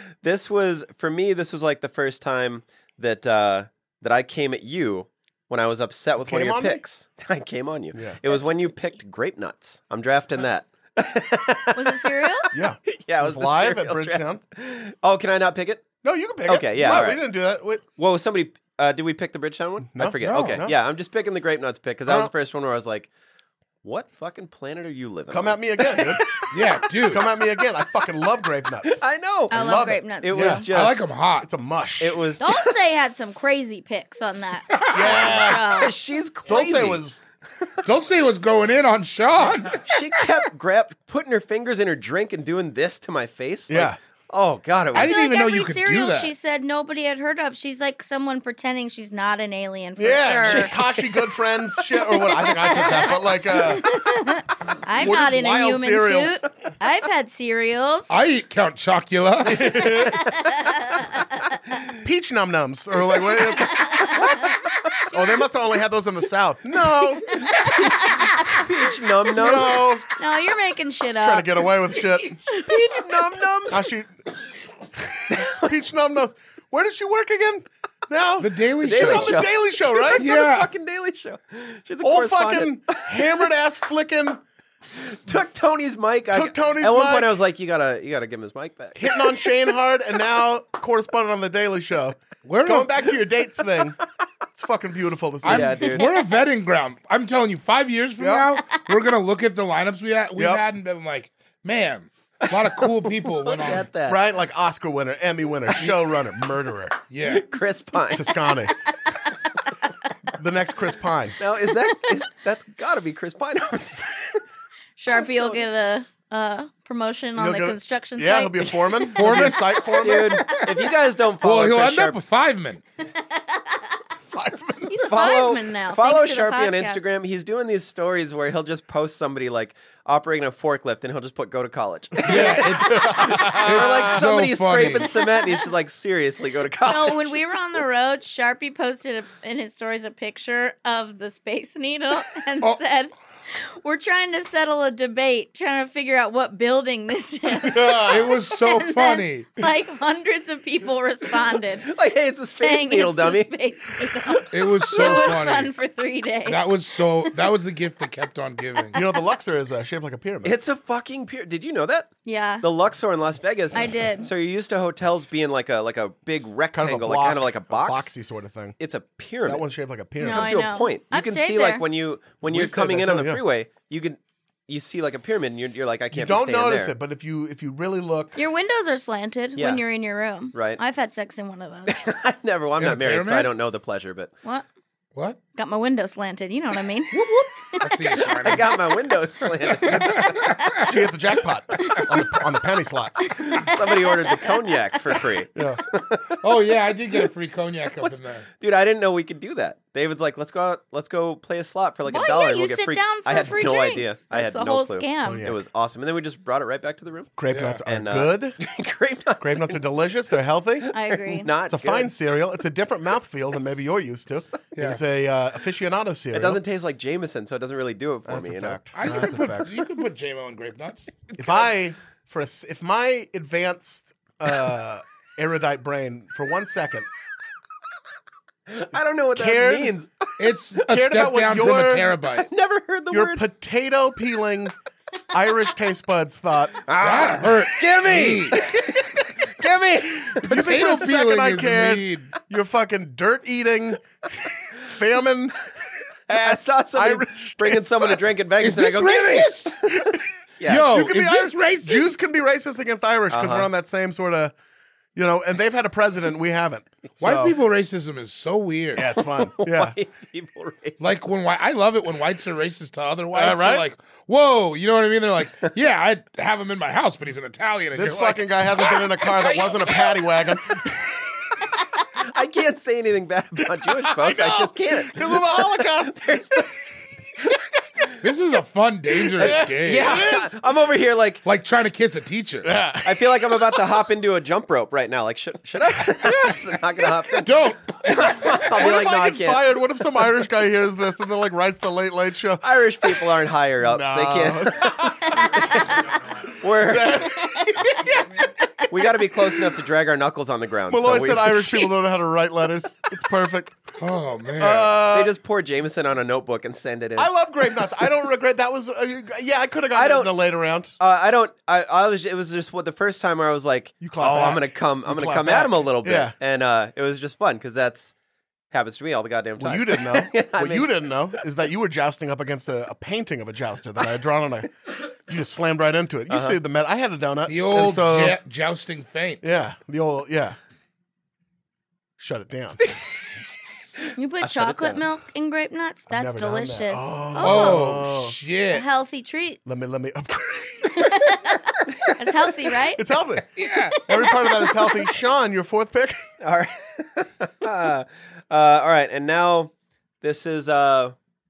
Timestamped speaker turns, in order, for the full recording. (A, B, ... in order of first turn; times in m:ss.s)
0:00.2-0:15.9 A
0:06.2-0:06.8 B
0:07.9-0:08.2 B
0:11.8-0:12.5 C
0:12.5-0:14.4 B
0:16.0-0:17.8 B
0:16.5-0:17.3 A
0:18.0-0:23.1 A
0:19.8-0:20.8 B
0:20.2-0:20.6 D
0:22.1-0:22.3 B
0:23.8-0:26.5 A
0:25.3-0:26.5 B
0:26.5-0:27.2 D
0:27.0-0:30.7 B
0:28.8-0:31.1 A
0:29.5-0:30.7 C
0:30.7-0:31.5 D
0:31.4-0:32.2 B
0:32.0-0:32.8 A
0:32.4-0:36.0 C
0:34.7-0:35.3 D
0:34.9-0:35.7 B
0:35.0-0:37.0 A
0:36.4-0:37.2 B
0:37.8-0:39.9 D
0:39.8-0:45.2 A
0:43.7-0:44.0 B
0:44.9-0:46.3 D
0:45.0-0:50.8 C
0:50.0-0:54.0 B
0:50.4-0:50.9 A
0:52.0-0:58.2 C
0:54.9-0:56.4 B
0:58.1-0:59.9 D
0:59.4-1:00.3 B
0:59.9-1:01.4 C
1:02.0-1:04.2 B
1:03.6-1:05.4 C
1:05.1-1:07.8 B
1:07.3-1:08.7 C
1:07.6-1:09.9 A
1:09.4-1:10.0 B
1:10.2-1:11.7 C
1:11.2-1:12.4 B
1:12.5-1:13.9 A
1:13.7-1:14.1 B
1:15.0-1:20.3 B
1:15.3-1:15.8 A
1:18.4-1:19.4 D
1:18.8-1:23.4 A
1:20.2-1:20.7 D
1:22.0-1:24.4 B
1:25.0-1:29.5 A
1:26.3-1:27.4 B
1:29.0-1:34.0 B
1:32.4-1:33.1 D
1:34.6-1:36.0 B
1:35.4-1:36.1 A
1:35.4-1:43.9 D
1:38.2-1:38.5 B
1:40.4-1:40.6 B
1:42.8-1:44.2 A
1:44.1-1:47.0 B
1:47.1-1:47.5 D
1:47.2-1:48.4 A
1:48.1-1:48.8 B
1:50.3-1:51.4 B
1:51.4-1:54.4 A
1:55.0-2:00.6 C
1:55.1-1:55.6 A
1:57.4-2:00.5 B
1:59.2-1:59.9 D
2:00.0-2:02.2 A
2:01.4-2:02.8 D
2:03.3-2:03.7 C
2:04.3-2:05.0 B
2:04.9-2:07.1 C
2:05.0-2:17.4 A
2:12.2-2:15.2 D
2:12.3-2:14.2 B
2:16.8-2:32.0 C
2:27.6-2:28.4 B
2:28.1-2:29.6 D
2:31.8-2:33.5 A
2:32.5-2:36.7 C
2:34.5-2:35.7 D
2:36.5-2:39.0 D
2:38.9-2:40.6 B
2:40.4-2:48.1 A
2:42.2-2:42.6 C
2:43.7-2:44.3 C
2:46.7-2:48.8 B
2:48.8-2:49.6 A
2:49.4-2:50.6 B
2:50.2-2:51.8 C
2:50.2-2:56.9 A
2:52.5-2:53.4 B
2:56.1-2:58.4 B
2:58.4-3:02.0 C
2:59.6-2:59.8 A
3:00.5-3:00.8 A
3:01.9-3:04.3 A
3:02.8-3:03.5 D
3:05.6-3:07.2 C
3:07.1-3:08.7 D
3:07.7-3:08.3 C
3:08.4-3:10.5 A
3:09.6-3:10.8 D
3:10.8-3:13.4 B
3:13.3-3:14.8 C
3:13.6-3:16.4 A
3:15.6-3:15.8 B
3:16.4-3:18.5 D
3:18.0-3:27.3 A
3:22.1-3:25.5 C
3:25.2-3:25.6 B
3:27.4-3:28.6 B
3:27.5-3:27.8 D
3:27.9-3:29.8 A
3:29.4-3:30.9 B
3:30.8-3:32.1 A
3:30.9-3:31.5 C
3:31.6-3:36.6 B
3:36.3-3:38.8 A
3:38.3-3:39.8 B
3:39.0-3:41.2 D
3:41.3-3:41.6 A
3:41.4-3:47.1 B
3:48.7-3:50.3 A
3:49.4-3:50.0 B
3:50.4-3:52.5 D
3:50.8-3:52.2 B
3:52.4-3:53.4 A
3:53.1-3:54.8 B
3:55.3-3:56.8 B
3:56.9-3:58.5 A
3:57.0-3:58.8 D
3:58.1-3:58.5 B
3:59.5-4:02.3 D
4:00.3-4:05.6 B
4:06.3-4:08.2 B
4:06.3-4:09.6 A
4:08.6-4:10.1 D
4:09.9-4:14.5 B
4:10.6-4:10.9 A
4:10.6-4:12.2 D
4:13.3-4:13.7 A
4:15.2-4:17.6 B
4:17.2-4:19.1 D
4:19.0-4:20.0 B
4:19.1-4:21.1 A
4:21.0-4:29.7 D
4:23.3-4:23.9 B
4:27.9-4:31.6 B
4:32.2-4:36.8 A
4:34.0-4:37.6 B
4:38.2-4:40.4 D
4:39.3-4:40.5 B
4:39.4-4:41.4 A
4:41.4-4:42.7 D
4:42.6-4:43.8 B
4:43.0-4:49.6 A
4:46.1-4:47.1 B
4:47.4-4:48.7 D
4:48.7-4:55.8 B
4:52.6-4:57.4 A
4:55.3-4:55.8 C
4:56.7-4:58.5 B
4:58.9-5:01.9 A
5:00.9-5:03.8 B
5:04.0-5:05.0 D
5:04.6-5:05.4 B
5:05.1-5:07.3 A
5:07.2-5:11.0 B
5:09.9-5:10.3 A
5:11.0-5:18.1 A
5:14.0-5:16.3 B
5:18.7-5:21.4 A
5:19.6-5:28.4 B
5:26.3-5:26.6 A
5:27.5-5:29.4 D
5:29.4-5:30.6 B
5:32.2-5:32.8 B
5:34.2-5:38.0 C
5:34.4-5:35.0 A
5:36.1-5:38.4 B
5:37.4-5:38.8 D
5:38.7-5:39.6 C
5:39.6-5:41.4 B
5:40.9-5:43.1 C
5:42.7-5:43.5 B
5:43.6-5:44.0 D
5:44.0-5:45.1 C
5:44.0-5:46.3 B
5:46.4-5:51.2 A